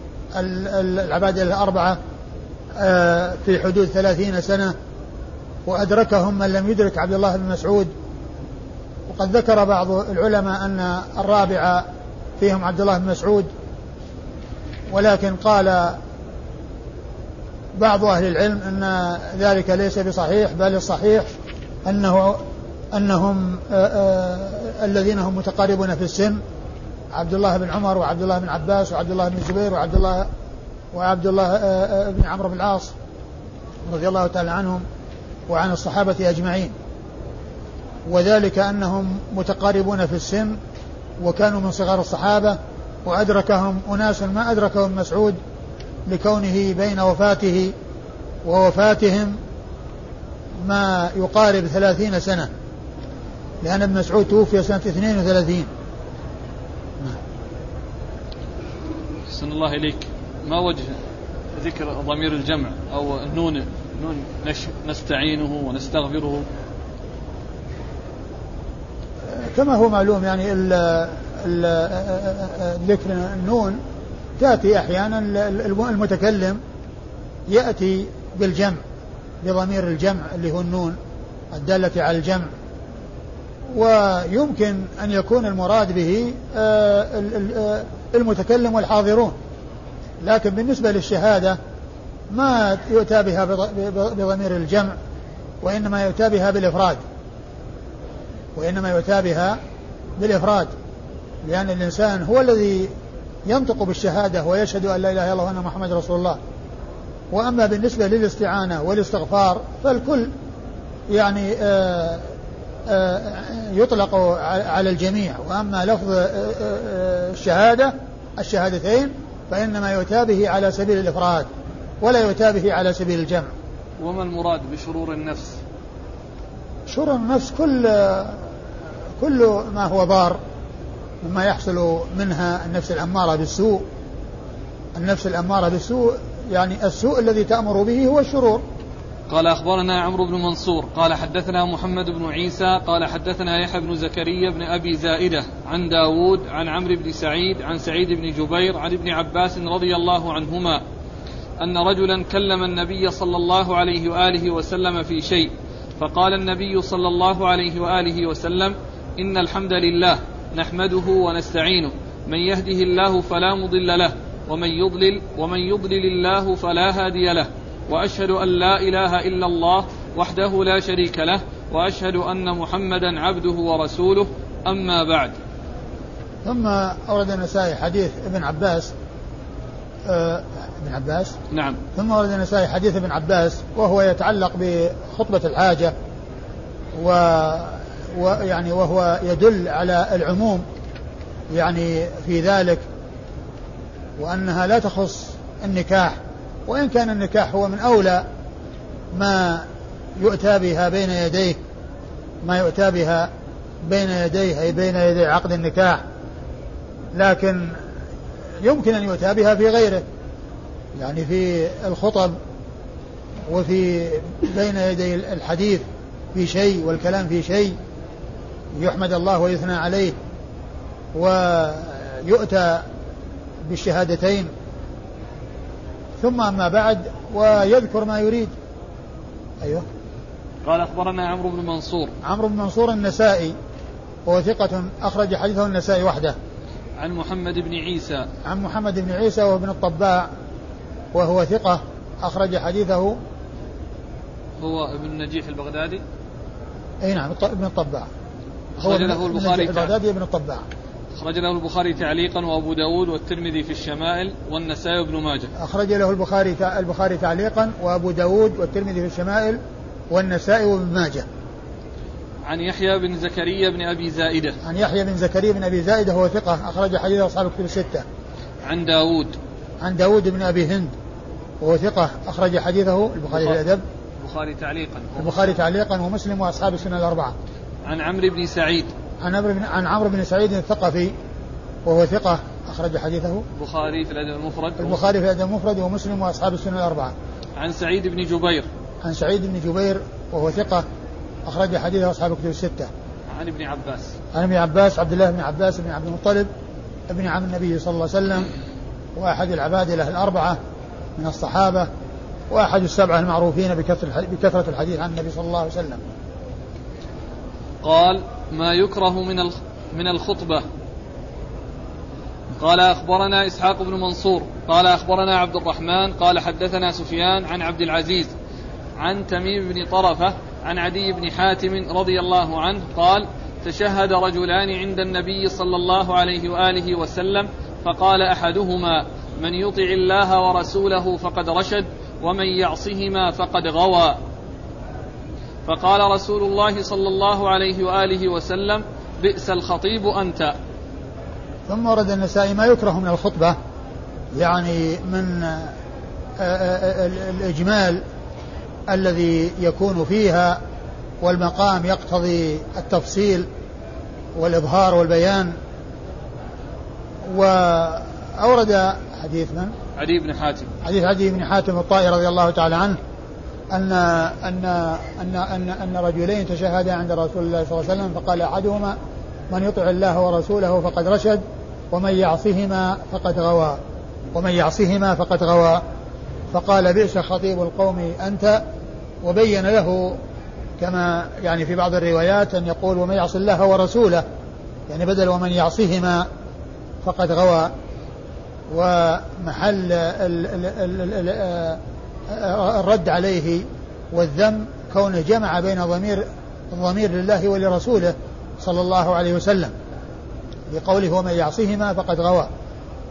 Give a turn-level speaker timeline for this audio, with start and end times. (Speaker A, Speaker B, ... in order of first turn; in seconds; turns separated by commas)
Speaker A: 0.3-2.0, Speaker A: 2.8-4.7, Speaker A: 5.7-7.9, Speaker A: 9.1-11.8, Speaker A: 12.4-13.5, Speaker A: 14.9-16.0, Speaker A: 17.8-21.3, Speaker A: 21.8-26.4, Speaker A: 27.1-30.3, Speaker A: 30.9-32.9, Speaker A: 33.9-34.8, Speaker A: 35.5-36.7, Speaker A: 38.0-40.6, Speaker A: 41.2-45.4, Speaker A: 46.1-47.7, Speaker A: 48.4-49.4, Speaker A: 50.6-52.5, Speaker A: 53.6-55.7, Speaker B: 59.3-61.0, Speaker B: 61.5-66.5, Speaker A: 69.2-73.8, Speaker A: 74.4-76.6, Speaker A: 77.5-78.8, Speaker A: 79.4-81.0, Speaker A: 81.5-82.5, Speaker A: 83.7-89.3, Speaker A: 90.2-91.6, Speaker A: 92.3-94.9, Speaker A: 95.6-97.0, Speaker A: 98.5-99.6, Speaker A: 100.2-100.7, Speaker A: 101.4-102.9, Speaker A: 103.5-106.4, Speaker A: 107.3-110.3, Speaker A: 111.1-112.3, Speaker A: 112.8-121.5, Speaker A: 122.0-123.5, Speaker B: 124.0-125.6, Speaker A: 126.9-128.5, Speaker A: 129.2-130.4, Speaker A: 131.2-133.8, Speaker A: 134.9-138.6, Speaker B: 139.3-150.8, Speaker B: 151.6-175.3, Speaker A: 176.4-178.9, Speaker A: 180.1-181.3, Speaker B: 181.5-181.8, Speaker A: 181.9-185.9, Speaker A: 186.9-190.6, Speaker A: 191.5-192.8, Speaker A: 194.2-198.2, Speaker A: 199.1-199.7, Speaker A: 200.2-201.6, Speaker A: 202.4-203.3, Speaker A: 203.8-206.0, Speaker A: 207.1-207.8, Speaker A: 208.6-210.0, Speaker A: 210.9-212.3, Speaker A: 213.5-217.7, Speaker A: 218.7-220.2, Speaker A: 221.1-222.8, Speaker A: 223.6-224.5, Speaker A: 226.2-228.5, Speaker B: 230.6-232.1, Speaker A: 232.2-233.5, Speaker A: 234.2-236.3, Speaker B: 237.0-238.3, Speaker A: 238.4-240.3, Speaker A: 241.1-243.2, Speaker B: 244.6-246.0, Speaker A: 247.0-248.1, Speaker B: 248.8-249.9, Speaker A: 248.8-250.6, Speaker B: 251.2-255.5, Speaker A: 255.6-261.2, Speaker B: 262.4-264.6, Speaker A: 264.6-268.0, Speaker B: 268.6-269.4, Speaker A: 269.8-270.9, Speaker A: 271.6-273.8, Speaker B: 273.3-273.6, Speaker B: 274.2-275.5, Speaker A: 275.2-277.3, Speaker B: 277.8-278.9, Speaker A: 279.2-281.1, Speaker A: 281.8-283.4, Speaker B: 283.5-285.0, Speaker A: 284.8-287.1, Speaker B: 287.6-288.7, Speaker A: 289.0-290.8, Speaker A: 291.4-292.9, Speaker B: 293.3-294.1, Speaker A: 294.3-296.5, Speaker A: 297.1-298.5, Speaker A: 299.1-300.6, Speaker A: 301.2-301.9, Speaker A: 302.5-306.1, Speaker B: 307.8-310.6, Speaker B: 312.6-318.3, Speaker B: 319.0-334.2, Speaker B: 335.6-340.5, Speaker A: 341.7-343.6, Speaker A: 344.3-345.7, Speaker A: 346.4-348.0, Speaker A: 348.9-350.6, Speaker A: 351.2-353.5, Speaker A: 354.3-355.5, Speaker A: 357.2-359.7, Speaker B: 360.0-360.7, Speaker A: 360.8-363.0, Speaker A: 363.7-369.0, Speaker A: 369.5-373.8, Speaker A: 374.3-375.8, Speaker A: 376.5-378.6, Speaker A: 379.2-380.2, Speaker A: 380.8-384.2, Speaker A: 384.9-386.2, Speaker A: 387.0-387.7, Speaker A: 388.7-399.7, Speaker A: 400.7-402.5